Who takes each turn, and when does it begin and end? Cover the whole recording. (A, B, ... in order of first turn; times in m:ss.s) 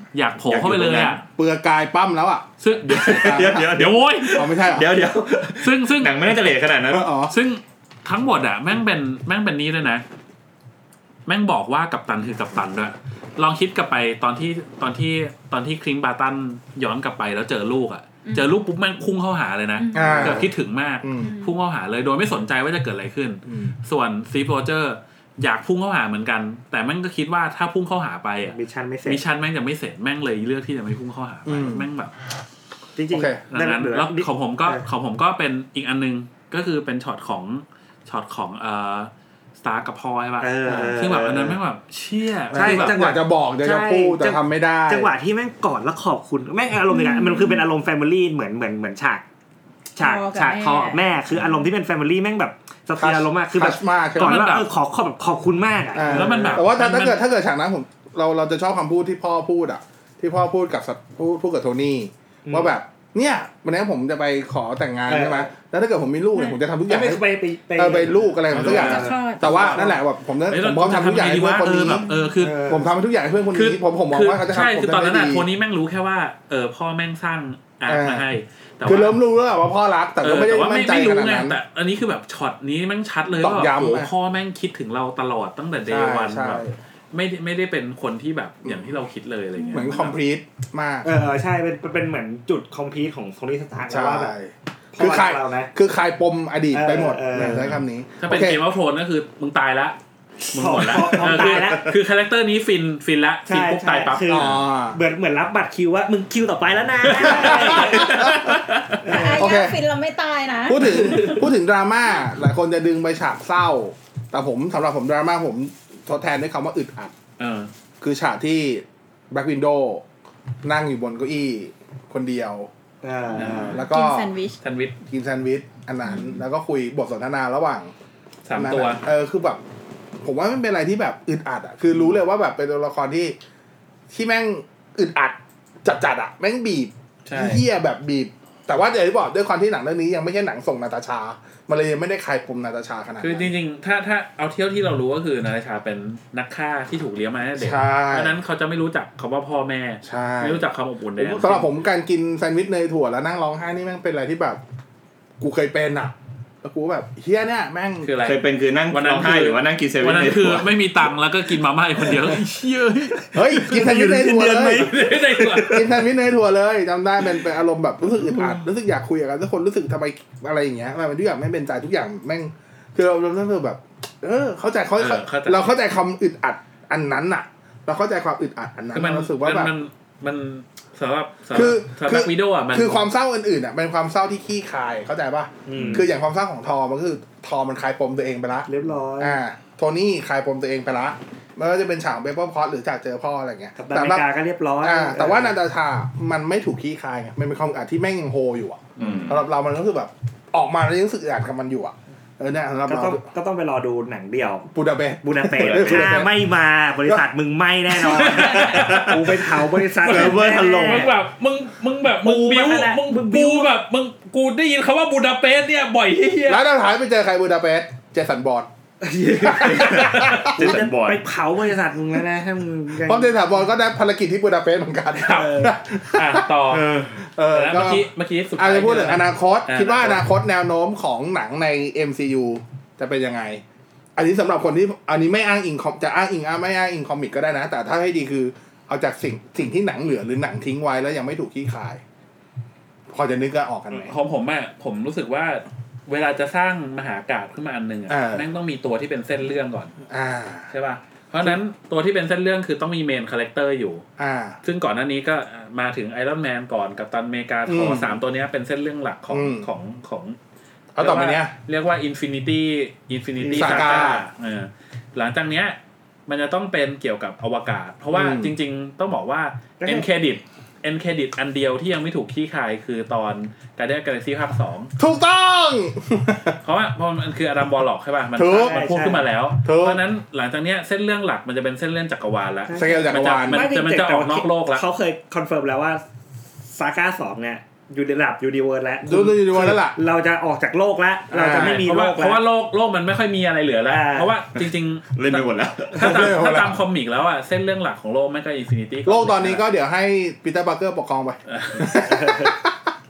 0:00.1-0:01.2 A
0:00.4-0:01.2 B
0:01.3-0:03.7 C
0:02.6-0:04.5 A
0:02.9-0:07.1 B
0:04.3-0:04.9 C
0:05.6-0:06.3 A
0:06.9-0:07.3 C
0:07.3-0:10.0 A
0:11.2-0:32.1 A
0:18.2-0:18.6 D
0:19.8-0:20.3 D
0:19.9-0:20.5 C
0:20.2-0:20.5 E
0:21.0-0:21.3 C
0:21.2-0:21.6 D
0:23.4-0:23.7 C
0:28.5-0:29.2 E
0:31.4-0:31.9 C
0:33.0-0:34.8 E
0:33.1-0:33.4 C
0:33.5-0:43.1 A
0:40.4-0:41.6 E
0:40.6-0:41.0 C
0:42.5-0:45.1 C
0:42.5-0:49.2 E
0:46.9-0:47.6 D
0:50.0-0:56.6 E
0:50.0-0:51.0 D
0:53.0-0:54.4 C
0:54.2-0:54.7 A
0:55.9-1:07.2 C
0:56.1-0:57.2 A
1:02.4-1:02.7 E
1:05.1-1:05.5 E
1:06.3-1:06.6 D
1:06.9-1:10.0 E
1:07.7-1:15.5 C
1:08.5-1:09.1 A
1:08.8-1:09.8 D
1:10.5-1:12.7 A
1:12.4-1:12.8 E
1:13.5-1:19.2 A
1:17.9-1:18.2 C
1:18.8-1:21.6 C
1:20.2-1:30.2 A
1:23.3-1:24.1 C
1:25.9-1:26.7 C
1:29.6-1:29.9 D
1:29.7-1:31.1 C
1:31.0-1:34.3 E
1:33.9-1:38.6 C
1:34.9-1:35.7 E
1:36.7-1:37.7 E
1:38.2-1:40.0 A
1:40.5-1:41.9 E
1:40.5-1:44.6 A
1:43.4-1:49.4 E
1:44.3-1:45.0 C
1:47.0-1:48.4 A
1:47.1-1:48.6 C
1:49.0-1:51.4 D
1:49.1-1:49.8 C
1:50.6-1:57.1 C
1:57.4-1:57.7 A
1:58.0-2:00.0 C
2:00.6-2:02.7 C
2:03.0-2:03.8 E
2:03.3-2:03.8 A
2:03.4-2:04.3 C
2:03.8-2:04.6 D
2:04.6-2:05.0 A
2:05.0-2:07.9 C
2:08.4-2:09.0 A
2:08.6-2:09.6 C
2:10.2-2:13.4 C
2:14.1-2:23.5 C
2:17.2-2:17.6 A
2:23.2-2:31.7 A
2:27.6-2:28.4 C
2:30.0-2:30.6 C
2:31.2-2:34.6 C
2:35.4-2:38.1 C
2:38.0-2:43.8 A
2:38.2-2:40.7 B
2:43.3-2:45.0 C
2:43.5-2:45.8 E
2:44.7-2:45.9 A
2:45.6-2:59.7 C
2:55.0-2:55.7 A
2:58.9-3:03.0 A
3:01.5-3:14.2 C
3:05.6-3:06.1 E
3:08.7-3:09.4 E
3:13.8-3:15.6 E
3:14.8-3:23.2 C
3:19.0-3:19.4 B
3:19.0-3:19.3 E
3:22.8-3:24.7 E
3:24.7-3:26.3 C
3:25.2-3:31.1 E
3:25.5-3:26.1 B
3:28.0-3:36.6 A
3:28.3-3:29.1 B
3:30.0-3:31.1 B
3:32.1-3:33.7 E
3:36.5-3:38.7 C
3:39.0-3:43.3 E
3:39.4-3:40.6 C
3:39.5-3:41.2 B
3:40.2-3:40.5 A
3:43.0-3:46.5 C
3:45.3-3:45.7 E
3:46.1-3:50.2 A
3:46.7-3:47.0 E
3:47.2-3:53.6 C
3:54.2-4:02.0 C
4:03.1-4:04.1 C
4:03.9-4:09.9 A
4:08.1-4:08.4 C
4:10.1-4:10.7 C
4:10.7-4:14.0 A
4:14.2-4:14.6 C
4:14.6-4:20.4 A
4:17.6-4:18.2 C
4:19.3-4:19.7 C
4:21.0-4:21.5 C
4:21.0-4:34.9 A
4:23.4-4:24.2 C
4:28.1-4:28.5 C
4:29.8-4:30.1 E
4:35.0-4:36.6 C
4:36.6-4:44.8 A
4:38.3-4:39.0 C
4:38.6-4:39.3 E
4:39.6-4:40.0 C
4:42.6-4:46.0 E
4:42.7-4:43.7 C
4:46.6-4:52.4 E
4:49.0-4:50.0 C
4:51.3-4:51.8 C
4:51.4-4:59.6 A
4:53.9-4:54.4 E
4:55.1-4:56.3 B
4:56.0-4:56.8 C
4:59.0-5:02.8 C
5:01.5-5:02.0 A
5:02.0-5:02.5 E